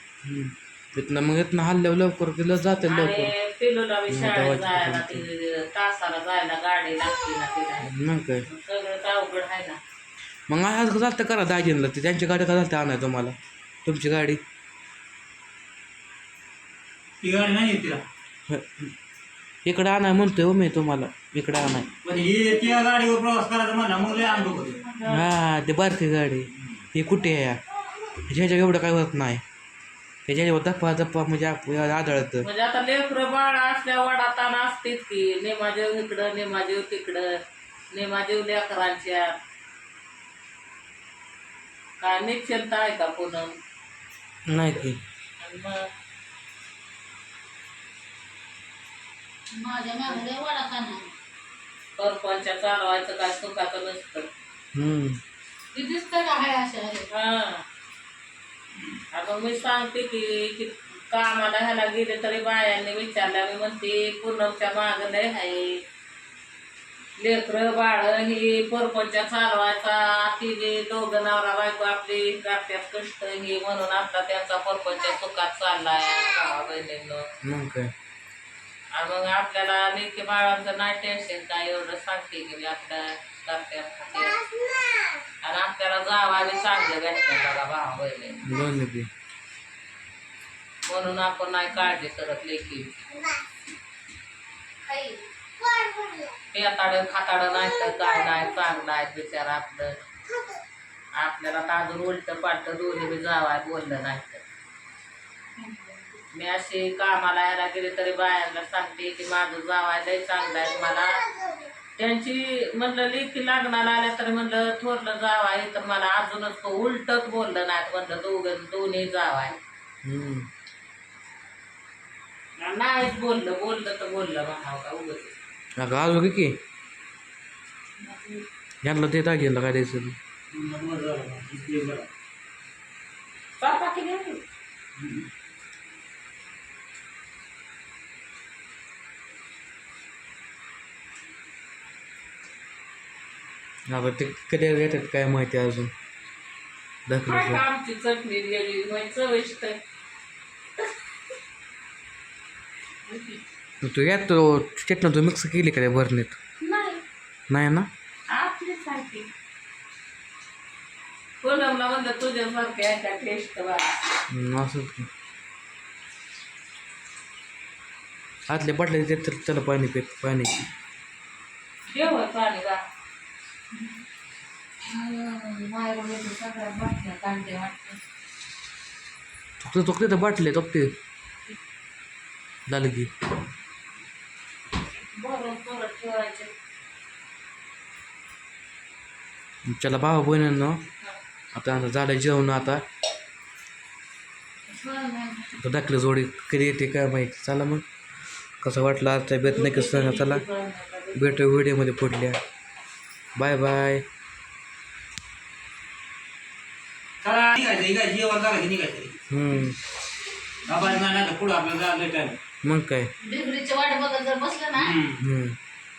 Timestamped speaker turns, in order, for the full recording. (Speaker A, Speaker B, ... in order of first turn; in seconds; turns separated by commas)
Speaker A: 0.2-3.3, Speaker B: 2.8-7.9, Speaker A: 4.1-5.2, Speaker A: 7.8-8.4, Speaker B: 8.4-9.8, Speaker A: 10.5-14.4, Speaker C: 17.2-18.0, Speaker A: 18.5-18.9, Speaker A: 19.6-21.9, Speaker C: 22.0-24.9, Speaker B: 24.9-25.3, Speaker A: 25.1-27.6, Speaker A: 28.3-29.4, Speaker A: 30.2-32.4, Speaker B: 32.4-37.3, Speaker B: 37.9-39.4, Speaker B: 42.0-43.5, Speaker A: 44.5-45.0, Speaker B: 45.4-45.8, Speaker D: 49.5-51.1, Speaker B: 52.0-54.3, Speaker A: 54.7-55.2, Speaker D: 55.7-57.1, Speaker B: 57.1-57.6, Speaker B: 59.1-65.8, Speaker B: 67.2-77.2, Speaker A: 77.4-77.9, Speaker B: 78.9-84.4, Speaker B: 85.4-88.4, Speaker A: 88.4-89.1, Speaker B: 90.8-93.1, Speaker D: 94.8-96.2, Speaker B: 96.5-99.9, Speaker B: 101.1-104.4, Speaker D: 105.6-106.0, Speaker B: 106.3-111.3, Speaker B: 112.0-119.6, Speaker A: 120.0-120.5, Speaker B: 122.6-125.3, Speaker A: 125.8-126.6, Speaker B: 128.0-128.4, Speaker A: 128.8-130.2, Speaker C: 130.5-132.1, Speaker B: 133.6-134.4, Speaker C: 134.9-135.3, Speaker A: 143.9-145.9, Speaker A: 147.1-147.6, Speaker B: 147.2-149.8, Speaker B: 153.1-153.4, Speaker A: 153.8-156.3, Speaker B: 156.6-157.0, Speaker A: 157.5-157.9, Speaker B: 158.3-159.3, Speaker B: 161.4-164.0, Speaker A: 164.3-165.1, Speaker A: 168.5-170.5, Speaker B: 171.9-172.8, Speaker B: 174.9-178.0, Speaker A: 179.6-180.9, Speaker A: 182.7-183.1, Speaker B: 185.1-186.5, Speaker A: 189.7-190.8, Speaker A: 191.5-192.8, Speaker B: 194.7-195.3, Speaker A: 195.6-197.8, Speaker A: 198.6-200.4, Speaker B: 199.4-201.5, Speaker A: 201.2-202.4, Speaker A: 203.3-204.0, Speaker C: 207.2-209.2, Speaker A: 209.3-209.8, Speaker C: 210.6-212.4, Speaker A: 212.6-213.1, Speaker D: 213.2-214.9, Speaker C: 214.7-215.2, Speaker A: 215.2-215.6